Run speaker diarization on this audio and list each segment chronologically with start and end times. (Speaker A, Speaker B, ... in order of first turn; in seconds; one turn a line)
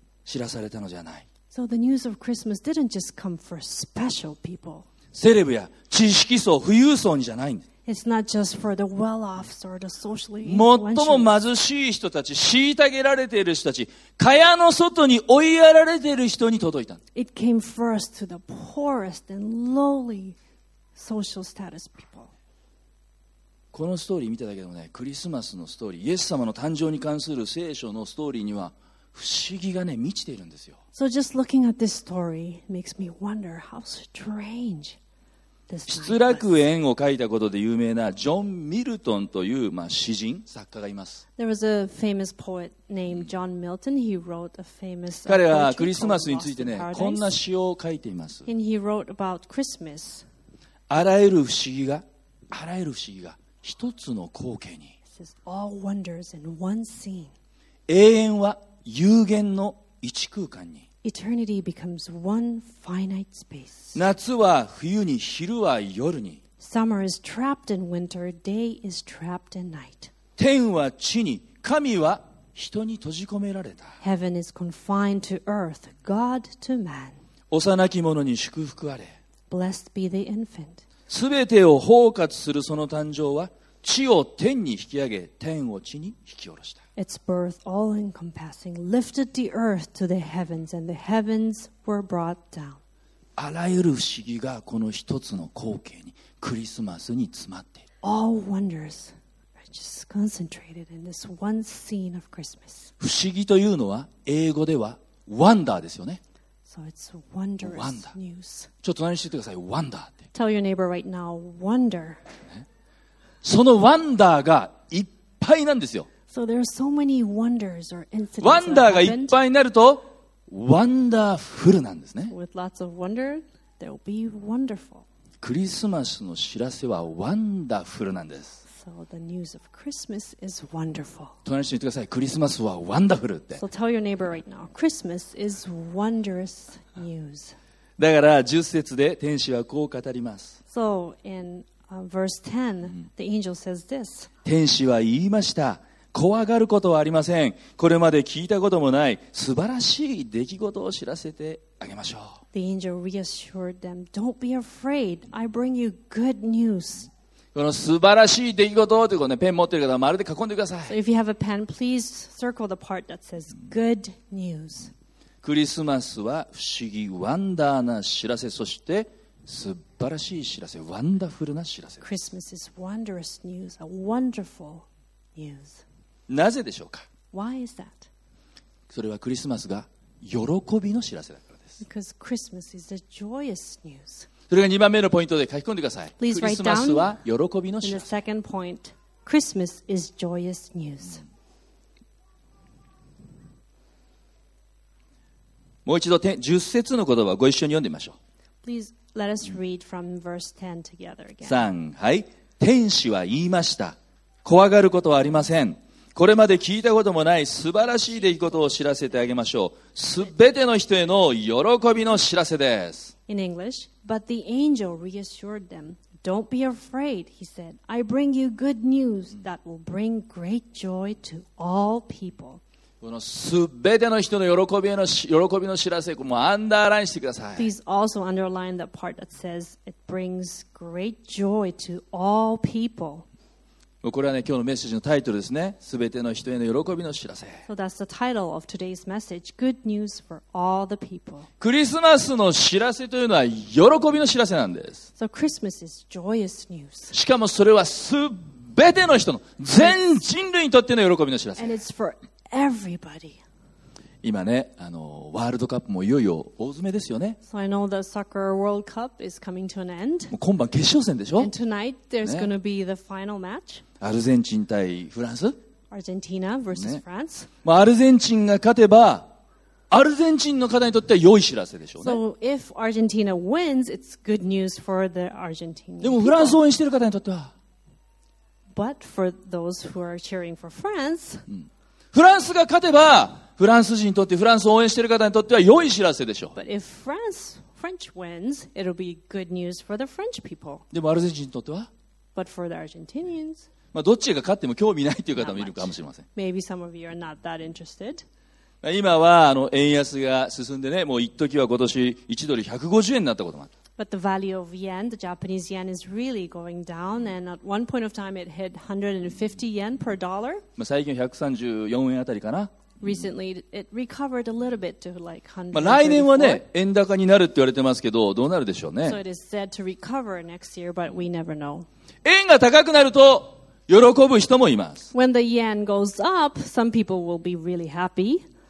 Speaker A: 0.2-1.2
Speaker B: 1.5-4.9
Speaker A: 5.1-7.6
Speaker B: 7.8-11.4
Speaker A: 10.4-17.0
Speaker B: 17.1-20.4
Speaker B: 20.9-22.3
Speaker A: 23.7-30.8
Speaker B: 30.9-35.0
Speaker B: 35.7-36.5
Speaker A: 35.9-41.2
Speaker B: 41.4-47.3
Speaker A: 45.3-48.5
Speaker B: 48.5-50.2
Speaker A: 50.9-54.9
Speaker B: 55.1-57.3
Speaker A: 57.9-60.8
Speaker B: 61.0-64.0
Speaker A: 63.9-66.4
Speaker B: 66.6-70.1
Speaker A: 70.4-74.0
Speaker B: 74.0-77.2
Speaker A: 77.5-79.1
Speaker B: 79.5-80.8
Speaker A: 81.1-86.8
Speaker B: 87.0-92.8
Speaker A: 93.4-97.8
Speaker B: 98.0-102.9
Speaker A: 103.0-106.2
Speaker B: 106.7-108.7
Speaker A: 107.6-108.1
Speaker A: 108.8-110.2
Speaker B: 110.3-112.2
Speaker A: 113.4-116.1
Speaker B: 116.3-119.4
Speaker A: 118.4-122.3
Speaker B: 122.3-125.0
Speaker A: 125.4-128.6
Speaker B: 128.7-131.3
Speaker A: 131.4-133.6
Speaker B: 133.6-137.6
Speaker A: 138.0-140.6
Speaker B: 140.7-144.3
Speaker A: 144.4-152.4
Speaker B: 152.5-157.1
Speaker A: 157.5-160.9
Speaker B: 160.9-164.9
Speaker A: 165.4-172.0
Speaker B: 172.0-175.8
Speaker A: 176.3-177.1
Speaker B: 177.3-178.1
Speaker A: 178.9-181.7
Speaker B: 181.8-184.3
Speaker A: 184.5-188.1
Speaker B: 186.2-187.2
Speaker B: 187.8-191.2
Speaker A: 195.8-198.2
Speaker B: 198.6-201.7
Speaker A: 201.4-213.1
Speaker B: 213.3-222.6
Speaker A: 223.0-227.7
Speaker B: 227.6-233.2
Speaker A: 234.0-237.6
Speaker B: 237.7-241.5
Speaker A: 241.6-245.1
Speaker B: 245.2-247.1
Speaker A: 247.1-251.8
Speaker B: 251.6-253.4
Speaker A: 254.2-257.4
Speaker B: 257.4-260.3
Speaker A: 260.3-261.5
Speaker B: 261.4-263.8
Speaker A: 262.2-262.5
Speaker A: 264.0-265.6
Speaker B: 265.9-267.5
Speaker A: 266.8-267.0
Speaker A: 267.6-269.3
Speaker A: 269.9-272.2
Speaker B: 272.0-276.6
Speaker A: 276.0-277.5
Speaker B: 278.7-281.4
Speaker A: 281.5-286.6
Speaker B: 286.6-290.9
Speaker A: 290.9-291.9
Speaker B: 292.3-293.6
Speaker A: 293.9-296.2
Speaker B: 295.4-298.2
Speaker A: 298.8-303.7
Speaker B: 304.0-310.6
Speaker A: 310.8-312.7
Speaker B: 313.0-316.6
Speaker A: 315.7-319.2
Speaker B: 319.0-321.9
Speaker A: 322.2-325.1
Speaker B: 325.1-328.4